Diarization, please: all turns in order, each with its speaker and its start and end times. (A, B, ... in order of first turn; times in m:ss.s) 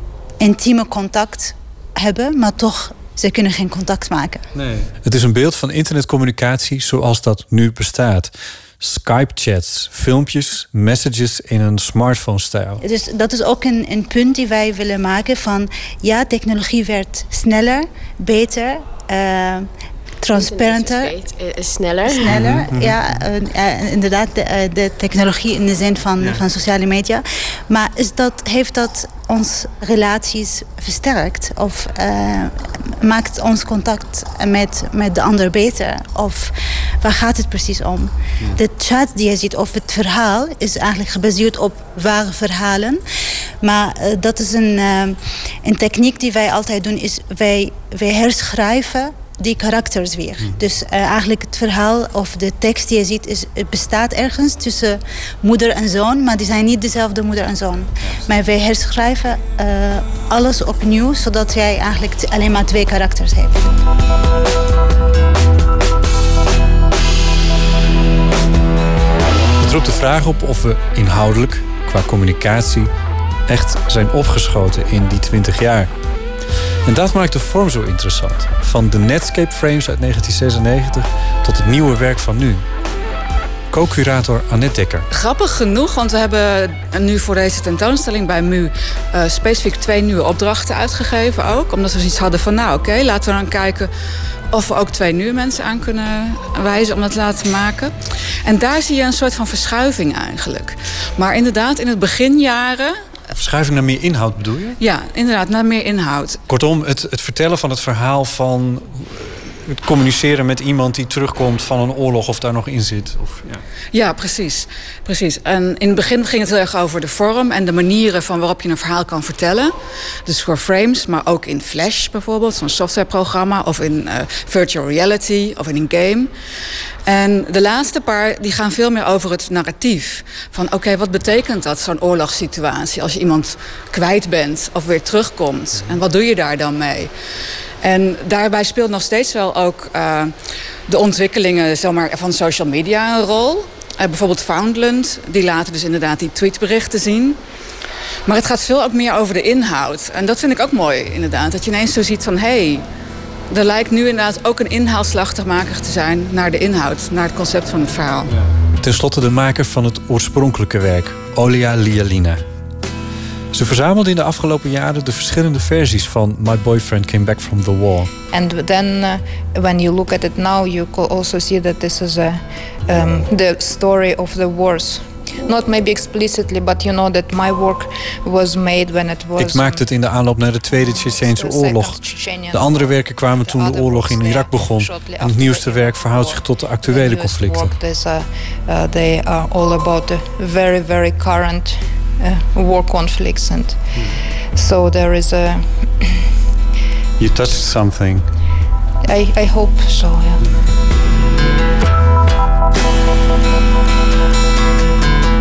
0:00.4-0:04.4 A
0:04.6-0:12.8 B
0:12.8-0:19.7 A
0:20.2-0:21.1 A
0:20.3-0:22.3 C
0:22.2-0:43.0 A
0:22.3-0:23.0 B
0:43.6-1:03.7 A
1:09.6-1:12.9 B
1:13.5-1:15.9 B
1:16.8-1:22.6 B
1:23.7-1:25.1 B
1:25.1-1:33.9 D
1:34.5-1:43.0 D
1:43.4-1:44.8 B
1:44.8-1:46.4 D
1:46.5-1:53.6 B
1:53.9-1:59.7 D
2:00.2-2:06.3 D
2:07.0-2:17.1 D
2:17.8-2:20.4 D
2:20.9-2:27.4 D
2:28.3-2:32.8 D
2:33.5-2:38.3 D
2:38.3-2:42.4 B
2:43.5-2:48.1 B
2:48.2-2:59.8 E
2:59.4-3:07.8 B
3:00.7-3:16.1 E
3:17.2-3:18.3 B
3:19.0-3:20.4 E